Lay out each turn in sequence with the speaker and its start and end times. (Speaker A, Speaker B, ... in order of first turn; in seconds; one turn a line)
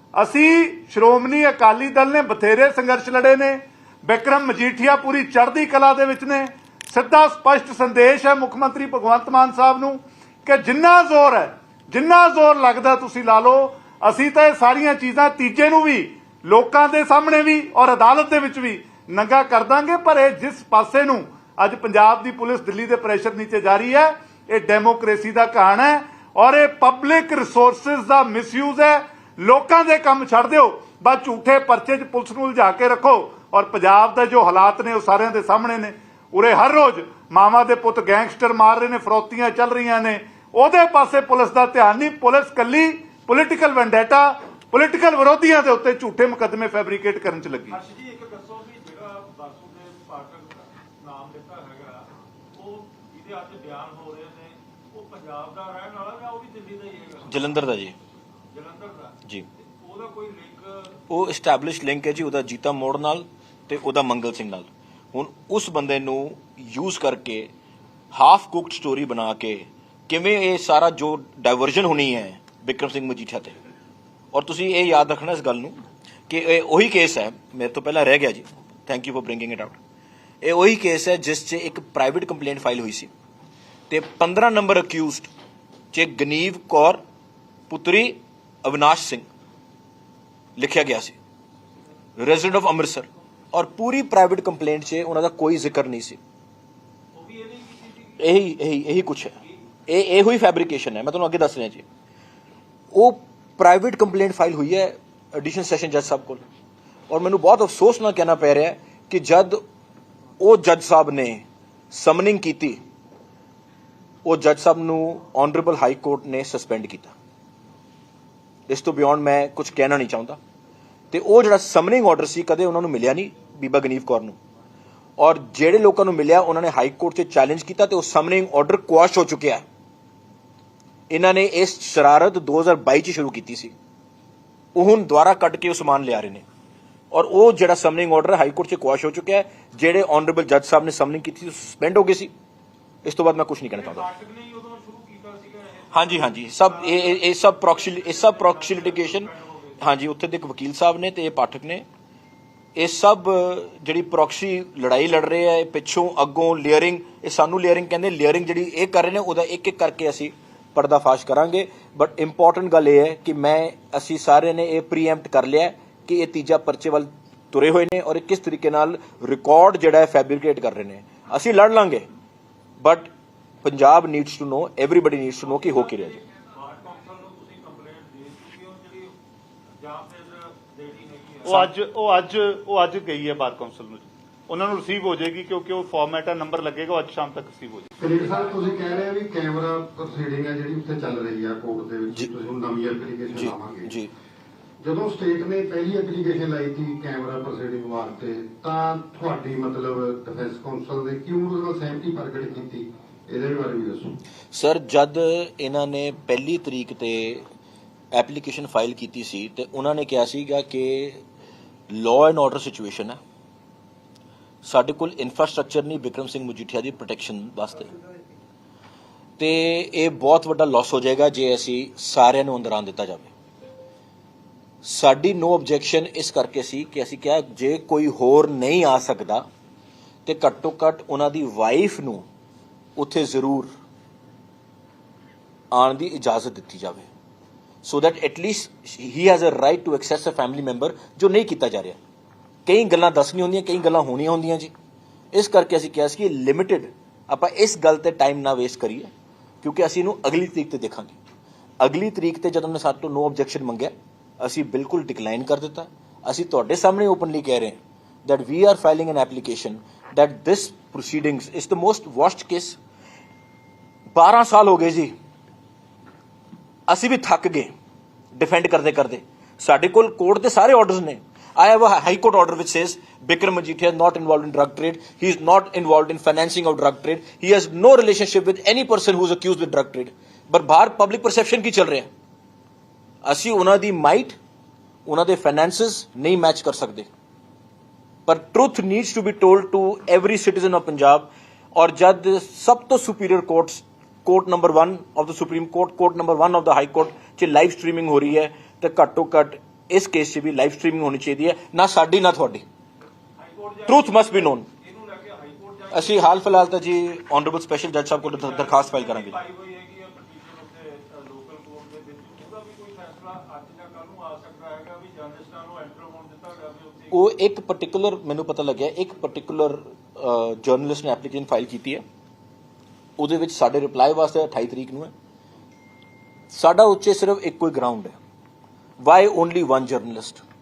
Speaker A: 0.1-47.8
Speaker B: 47.7-57.5
Speaker C: 57.3-58.0
Speaker B: 58.5-59.1
Speaker B: 59.8-61.0
Speaker C: 61.1-67.5
Speaker C: 68.1-73.5
Speaker C: 74.3-75.8
Speaker C: 76.3-79.8
Speaker C: 80.4-83.1
Speaker C: 83.9-85.3
Speaker C: 85.9-87.0
Speaker C: 87.7-89.3
Speaker C: 90.6-91.2
Speaker C: 92.2-96.2
Speaker B: 97.1-98.2
Speaker C: 98.2-99.3
Speaker C: 99.9-101.8
Speaker C: 102.9-106.4
Speaker C: 107.1-109.6
Speaker C: 110.4-112.8
Speaker C: 114.2-117.1
Speaker C: 118.7-120.4
Speaker C: 121.1-124.4
Speaker C: 125.2-129.6
Speaker C: 131.1-133.7
Speaker C: 134.7-136.4
Speaker C: 137.1-142.3
Speaker C: 143.0-144.1
Speaker B: 143.7-149.9
Speaker C: 145.9-151.8
Speaker C: 152.8-172.1
Speaker C: 172.8-173.1
Speaker C: 173.6-176.2
Speaker B: 175.4-179.1
Speaker B: 179.8-181.7
Speaker A: 181.4-187.9
Speaker D: 188.0-193.9
Speaker C: 193.3-194.1
Speaker D: 194.8-204.2
Speaker C: 204.5-207.4
Speaker C: 208.1-211.2
Speaker C: 211.9-213.2
Speaker C: 214.6-217.9
Speaker C: 219.4-223.3
Speaker C: 224.8-229.4
Speaker C: 230.2-232.2
Speaker C: 232.9-233.7
Speaker C: 235.7-237.1
Speaker C: 237.8-242.0
Speaker C: 242.7-244.7
Speaker C: 245.3-249.1
Speaker C: 249.6-251.2
Speaker C: 251.8-262.8
Speaker C: 264.1-265.1
Speaker C: 266.9-267.7
Speaker C: 268.4-282.1
Speaker C: 283.2-284.4
Speaker C: 285.1-287.1
Speaker C: 288.3-302.6
Speaker B: 303.4-306.6
Speaker C: 303.9-304.6
Speaker C: 305.9-309.4
Speaker B: 308.2-317.2
Speaker C: 317.1-322.0
Speaker C: 323.2-325.1
Speaker C: 326.5-328.1
Speaker C: 329.0-330.4